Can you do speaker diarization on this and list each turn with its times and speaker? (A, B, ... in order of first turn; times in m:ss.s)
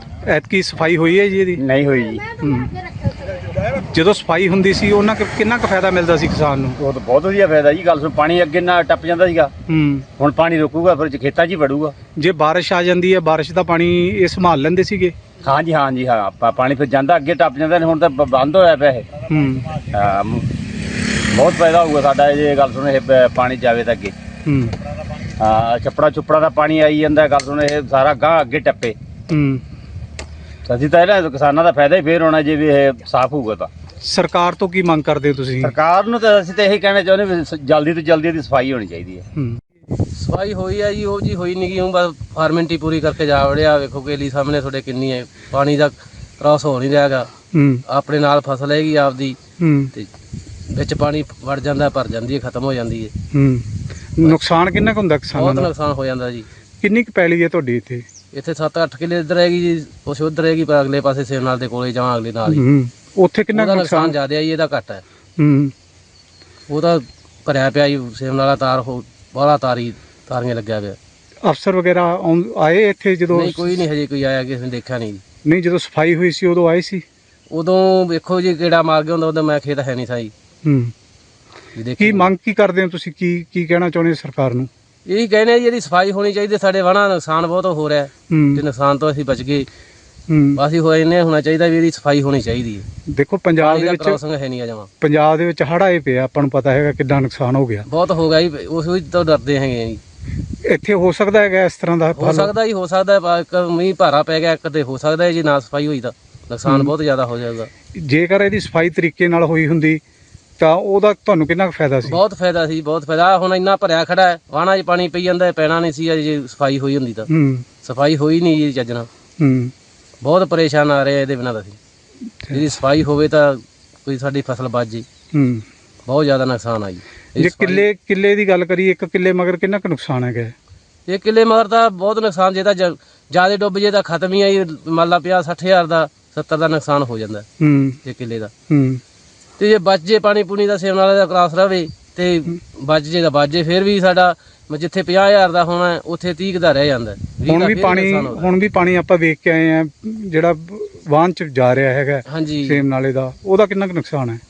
0:00.2-0:01.6 A
0:01.6-0:02.3 B
0:02.4-0:02.7 A
0:03.9-0:06.8 A
0:06.8-0:09.5 B
0:09.7-0:10.0 A
0:10.2-0:11.9 B
0:12.2-0:15.2 A
0:15.4-0:19.1 B
0:19.3-0:19.7 A
0:19.9-0:20.5 B
0:21.3-0:24.1 B
0:24.4-0:24.8 A
0:25.4-0:29.0 B
0:29.3-0:29.6 A
0:30.6-0:33.7 B
0:34.0-0:35.7 A
0:35.6-0:39.3 B
0:40.1-0:47.3 C
0:47.5-0:47.8 A
0:47.9-0:49.4 C
0:49.6-0:49.9 A
0:50.7-0:53.1 C
0:53.3-0:55.7 A
0:55.3-0:56.5 C
0:56.8-0:58.0 A
0:58.3-1:02.6 C
1:02.5-1:04.2 A
1:03.5-1:05.0 C
1:05.4-1:05.7 A
1:06.7-1:11.0 C
1:11.4-1:13.8 A
1:13.3-1:15.2 C
1:15.4-1:17.0 A
1:17.5-1:20.3 C
1:20.6-1:20.9 A
1:21.8-1:22.3 C
1:22.0-1:24.7 A
1:25.0-1:29.7 C
1:28.3-1:28.6 A
1:30.3-1:30.6 A
1:30.6-1:32.8 C
1:33.1-1:34.2 A
1:33.6-1:34.9 C
1:35.0-1:37.8 A
1:37.9-1:40.0 C
1:40.6-1:42.5 A
1:42.2-1:47.7 C
1:46.7-1:46.9 A
1:47.9-1:50.0 A
1:50.6-1:52.2 A
1:52.0-1:57.3 C
1:57.3-1:57.6 A
1:57.8-1:59.1 C
1:59.4-1:59.7 A
2:00.2-2:01.8 C
2:02.5-2:05.0 C
2:05.3-2:05.6 A
2:06.0-2:07.8 C
2:07.4-2:10.5 A
2:11.1-2:17.5 C
2:17.6-2:18.0 A
2:18.0-2:18.5 C
2:18.7-2:19.0 A
2:19.6-2:28.5 C
2:27.4-2:34.4 A
2:32.3-2:32.8 C